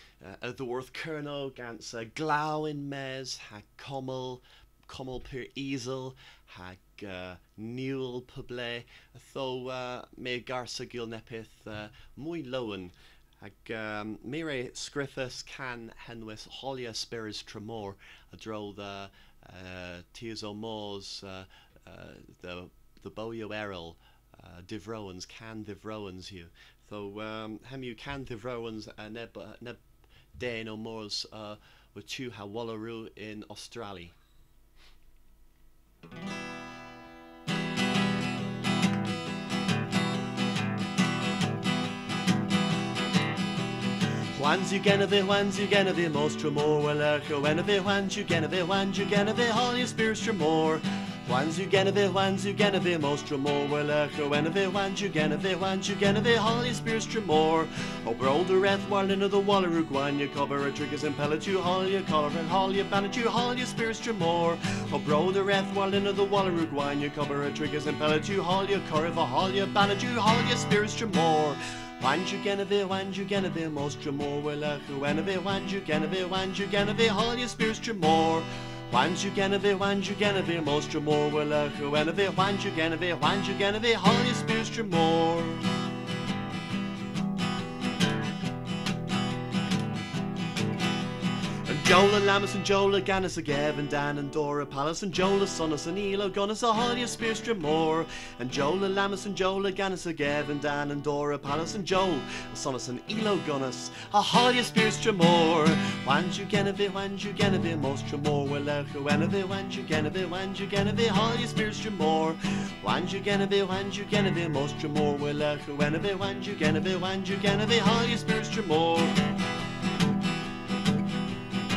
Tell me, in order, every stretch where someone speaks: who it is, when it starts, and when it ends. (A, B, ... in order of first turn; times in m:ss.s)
0:00.2-0:34.2 A
0:44.3-1:25.7 A
1:31.6-1:59.2 A